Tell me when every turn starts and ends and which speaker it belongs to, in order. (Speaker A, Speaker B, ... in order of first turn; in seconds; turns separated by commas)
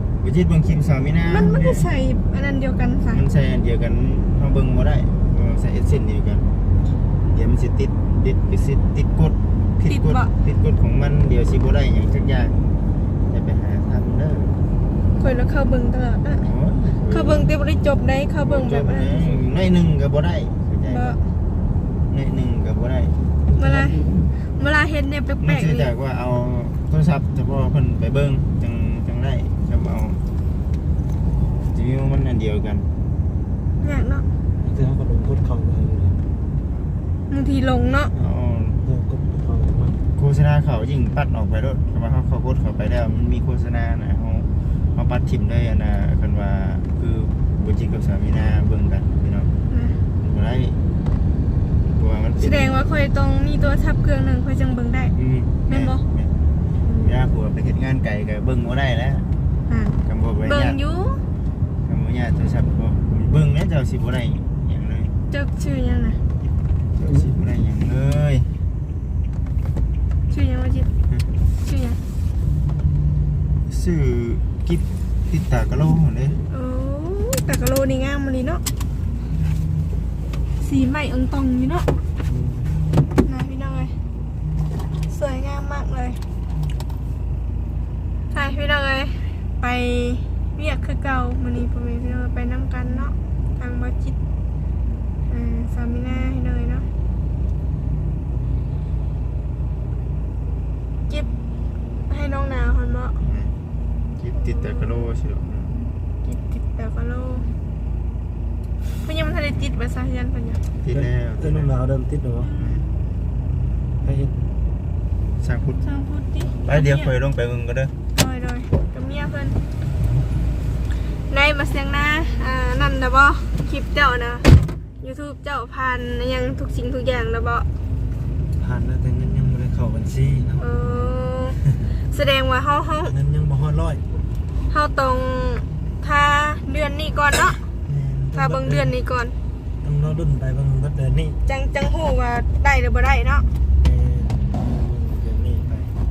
Speaker A: 0.2-1.9, Speaker B: 1.3-3.2, Speaker A: 3.1-6.5, Speaker A: 7.2-12.7, Speaker B: 9.9-10.3, Speaker A: 13.3-14.6, Speaker B: 15.2-16.5, Speaker A: 16.3-17.5, Speaker B: 17.1-19.4, Speaker A: 18.4-21.2, Speaker B: 20.9-21.2, Speaker A: 22.1-23.2, Speaker C: 23.5-24.2, Speaker B: 23.6-25.9, Speaker A: 25.4-30.2, Speaker A: 31.7-32.9, Speaker B: 33.8-34.3, Speaker C: 34.6-36.2, Speaker B: 37.3-38.1, Speaker A: 38.1-38.8, Speaker C: 38.8-40.0, Speaker A: 40.1-49.5, Speaker B: 49.7-50.0, Speaker A: 50.2-50.8, Speaker A: 51.9-52.8, Speaker B: 52.4-55.1, Speaker A: 55.1-56.4, Speaker B: 55.7-56.0, Speaker B: 56.8-57.2, Speaker A: 57.0-59.3, Speaker B: 59.7-61.2, Speaker A: 60.0-60.8, Speaker A: 61.9-65.1, Speaker B: 65.3-66.2, Speaker A: 67.0-68.5, Speaker C: 67.0-67.3, Speaker B: 70.3-70.9, Speaker B: 71.6-72.0, Speaker A: 73.7-76.4, Speaker B: 76.5-78.6, Speaker B: 80.6-81.9, Speaker C: 82.2-82.8, Speaker B: 83.2-84.0, Speaker B: 85.1-86.2, Speaker B: 88.3-94.2, Speaker B: 95.3-96.9, Speaker B: 102.1-103.2, Speaker A: 103.2-103.5, Speaker A: 104.2-105.8, Speaker B: 104.3-105.1, Speaker B: 106.2-107.5, Speaker B: 109.0-110.6, Speaker A: 110.8-111.7, Speaker C: 110.9-112.5, Speaker B: 112.4-112.8, Speaker A: 112.6-112.8, Speaker C: 114.0-114.3, Speaker A: 115.4-115.8, Speaker B: 115.8-117.1, Speaker A: 116.6-117.9, Speaker B: 118.1-119.6, Speaker B: 121.3-124.5, Speaker B: 125.0-127.7, Speaker C: 128.6-130.6, Speaker B: 130.6-133.2, Speaker C: 133.1-134.0, Speaker B: 134.7-137.7, Speaker C: 137.8-138.9, Speaker B: 138.3-139.4, Speaker C: 139.8-141.4, Speaker B: 141.5-143.5, Speaker C: 143.8-145.9